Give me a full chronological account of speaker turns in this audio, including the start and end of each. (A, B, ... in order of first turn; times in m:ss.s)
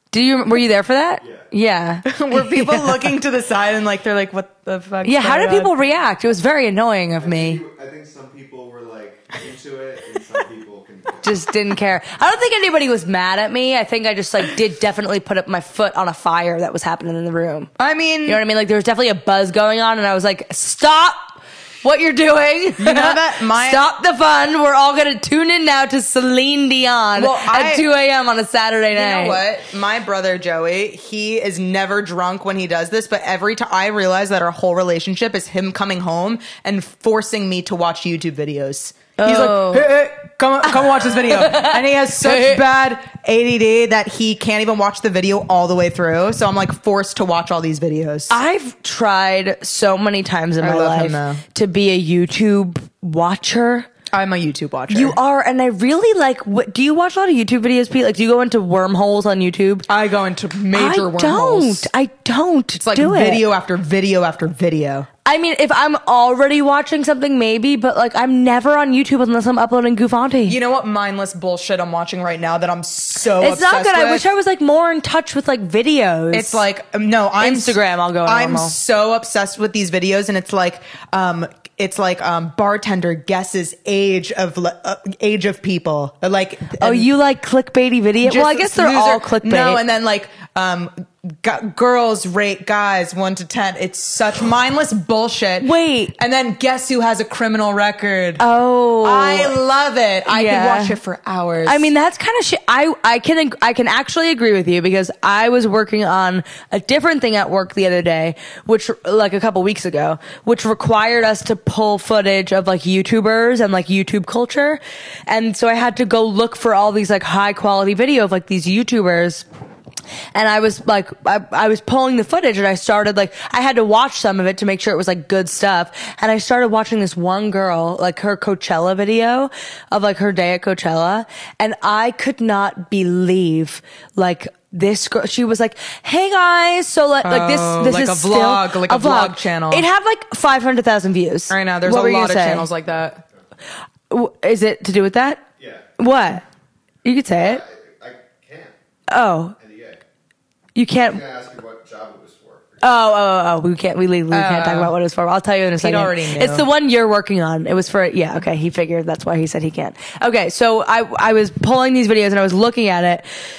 0:00.1-0:03.0 A
0:01.2-0:01.5 B
0:02.1-0:05.7 C
0:05.0-0:07.6 A
0:07.2-0:11.5 B
0:11.2-0:17.7 A
0:17.8-0:18.4 C
0:18.3-0:29.4 A
0:22.8-0:23.9 C
0:27.2-0:27.9 C
0:28.9-0:48.4 C
0:39.2-0:39.9 A
0:40.8-0:42.6 A
0:48.3-0:53.9 A
0:50.6-0:51.4 C
0:54.1-0:55.2 C
0:54.9-0:59.9 A
0:59.9-1:01.9 C
1:00.7-1:03.4 A
1:02.8-1:05.1 C
1:05.2-1:10.6 A
1:10.5-1:14.2 C
1:13.4-1:16.6 A
1:16.3-1:27.1 C
1:17.4-1:18.7 A
1:26.8-1:29.8 A
1:28.2-1:38.4 C
1:35.6-1:36.2 A
1:38.4-1:39.6 A
1:39.0-1:41.9 C
1:40.3-1:41.0 A
1:41.7-1:59.4 A
2:00.3-2:22.7 A
2:17.2-2:19.9 C
2:21.5-2:23.2 C
2:24.1-2:25.4 A
2:25.6-2:25.8 B
2:26.0-2:26.4 A
2:27.0-2:27.6 A
2:27.4-2:28.7 B
2:29.1-2:29.5 A
2:29.6-2:30.0 B
2:30.8-2:31.2 A
2:31.0-2:32.8 B
2:32.8-2:43.3 A
2:34.3-2:34.9 C
2:35.8-2:36.7 C